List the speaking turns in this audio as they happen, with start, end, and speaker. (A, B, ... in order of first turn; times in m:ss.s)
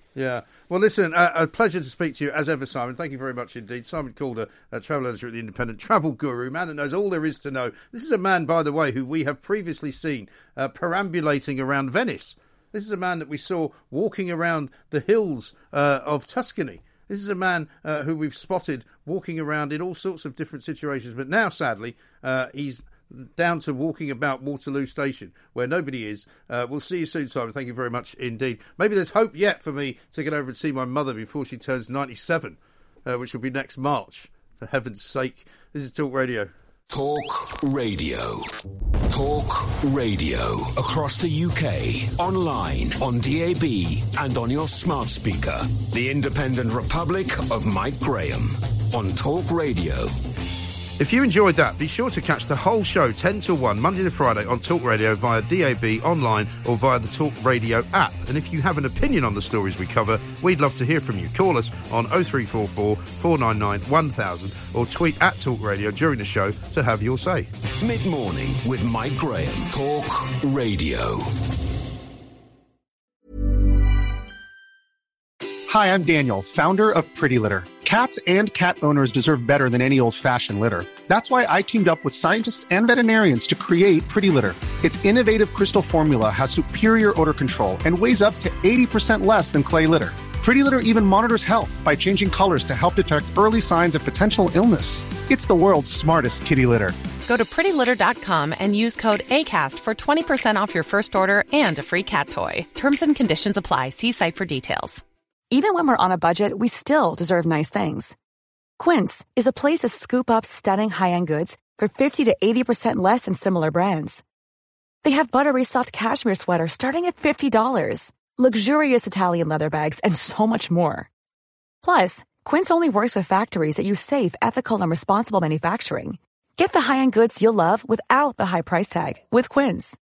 0:00.1-0:36.5 A
0:36.9-0:38.4 B
0:39.1-0:50.1 B
0:51.0-1:07.5 A
1:07.8-1:11.3 B
1:15.7-1:36.9 C
1:37.2-1:45.0 D
1:45.5-1:48.1 E
1:48.8-1:54.2 E
1:55.0-2:01.1 E
2:01.8-2:10.0 E